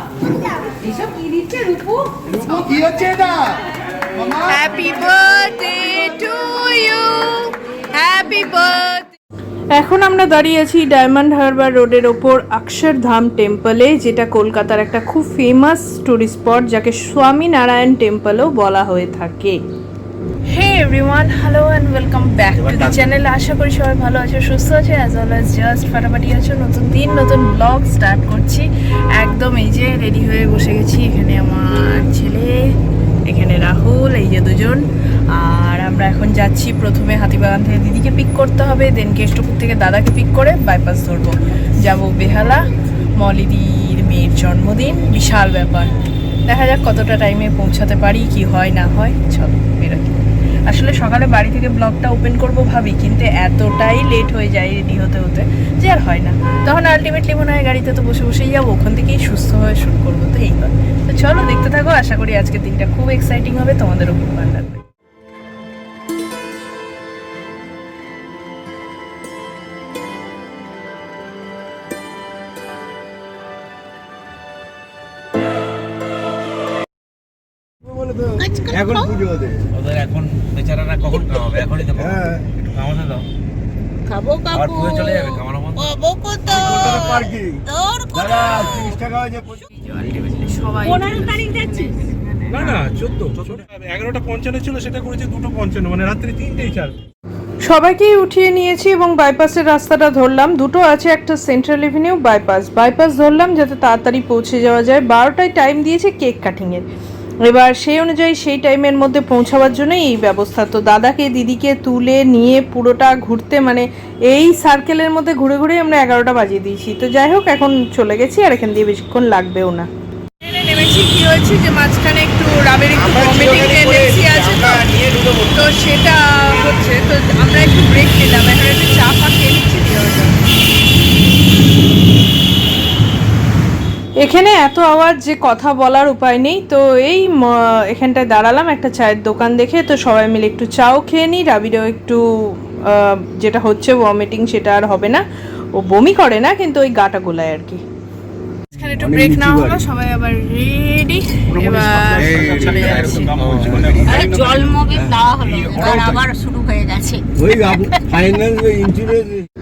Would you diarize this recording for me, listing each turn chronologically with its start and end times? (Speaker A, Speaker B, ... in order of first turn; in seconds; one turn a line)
Speaker A: 0.9-1.5
Speaker B: 1.5-2.0
Speaker B: 4.4-9.1
Speaker B: 9.7-19.6
Speaker B: 20.5-32.7
Speaker C: 22.6-23.0
Speaker B: 33.2-64.8
Speaker D: 77.9-79.7
Speaker A: 78.4-79.0
Speaker C: 79.7-83.3
Speaker D: 82.0-82.4
Speaker A: 84.1-85.1
Speaker C: 84.5-86.1
Speaker A: 85.8-87.2
Speaker D: 86.5-89.6
Speaker A: 87.7-88.5
Speaker B: 89.7-92.0
Speaker A: 91.1-91.9
Speaker E: 92.5-97.0
Speaker B: 97.6-106.8
Speaker B: 107.5-119.9
Speaker B: 120.4-130.3
Speaker D: 123.0-125.6
Speaker B: 134.2-145.2
Speaker B: 145.8-147.8
Speaker B: 148.8-153.3
Speaker D: 149.0-149.8
Speaker E: 151.6-152.2
Speaker D: 152.1-156.3
Speaker C: 152.2-154.6
Speaker A: 154.1-157.2
Speaker D: 157.4-159.5